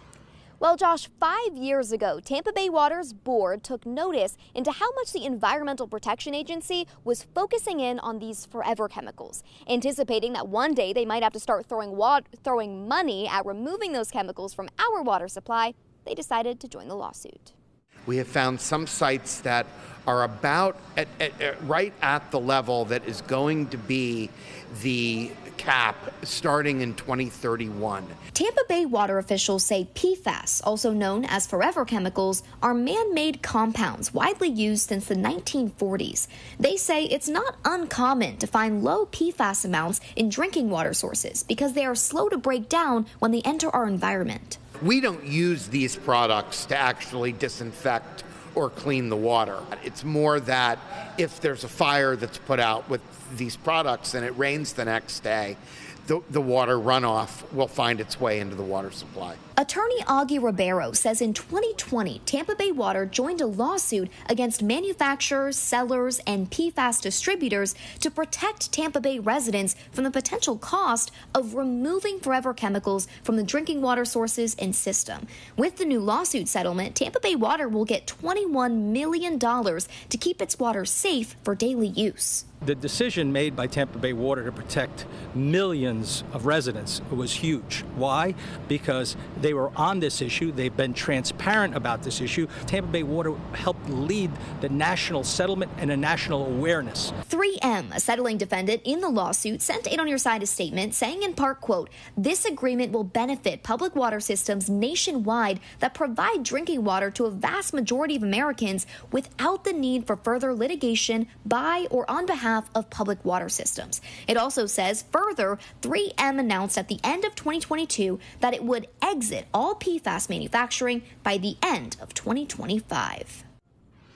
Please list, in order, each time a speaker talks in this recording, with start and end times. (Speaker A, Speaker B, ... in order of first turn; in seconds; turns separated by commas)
Speaker A: 0.6-17.5, Speaker B: 18.1-28.1, Speaker A: 28.3-44.6, Speaker B: 44.8-59.4, Speaker A: 59.6-82.5, Speaker C: 82.6-97.1, Speaker A: 97.2-123.4